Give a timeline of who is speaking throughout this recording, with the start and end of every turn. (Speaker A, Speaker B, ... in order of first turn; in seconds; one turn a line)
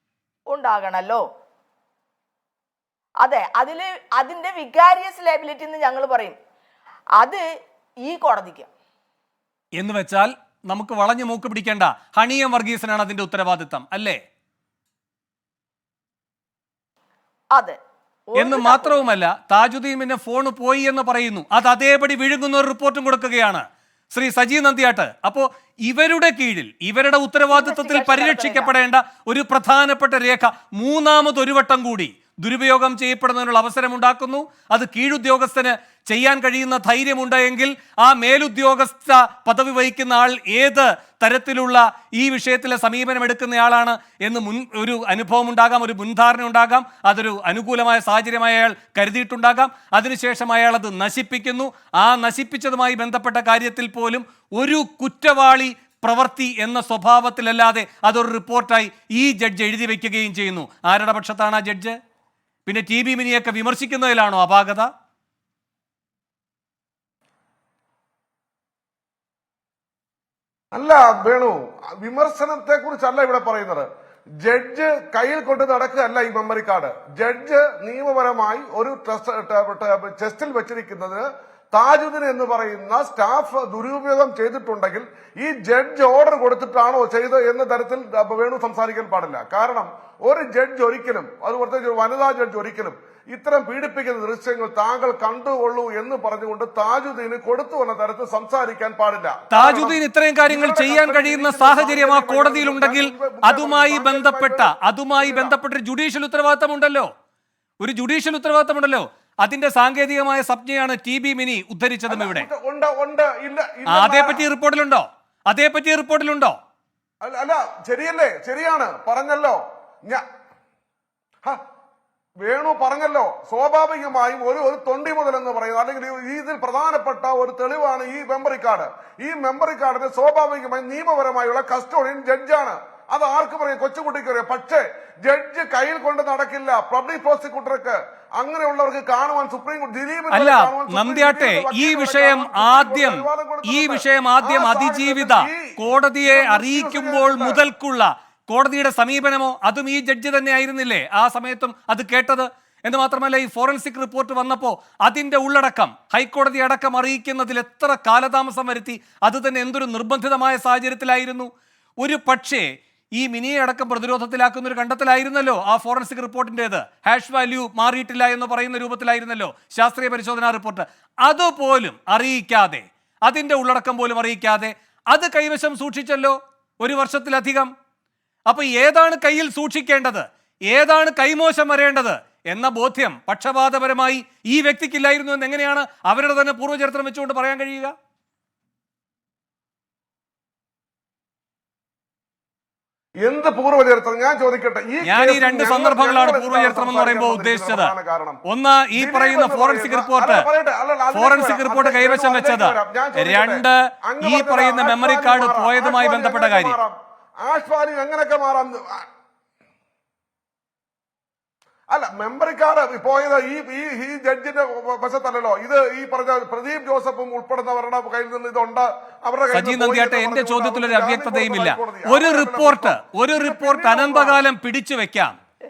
Speaker A: 0.5-1.2
Speaker A: 3.2-6.3
Speaker A: 7.2-7.4
Speaker A: 8.0-8.7
Speaker B: 9.8-14.2
Speaker A: 18.3-19.0
Speaker B: 18.4-62.0
Speaker A: 27.5-28.7
Speaker B: 62.6-64.9
Speaker C: 70.7-73.9
Speaker C: 74.4-105.5
Speaker B: 99.5-107.1
Speaker B: 107.8-112.5
Speaker C: 112.1-114.5
Speaker B: 113.9-116.5
Speaker C: 117.2-120.2
Speaker C: 122.4-147.6
Speaker B: 140.3-161.5
Speaker B: 162.0-177.7
Speaker B: 178.5-187.9
Speaker C: 193.2-198.4
Speaker B: 195.0-197.9
Speaker B: 198.4-200.4
Speaker C: 198.9-209.1
Speaker B: 201.1-206.8
Speaker C: 211.9-224.4
Speaker B: 219.5-225.3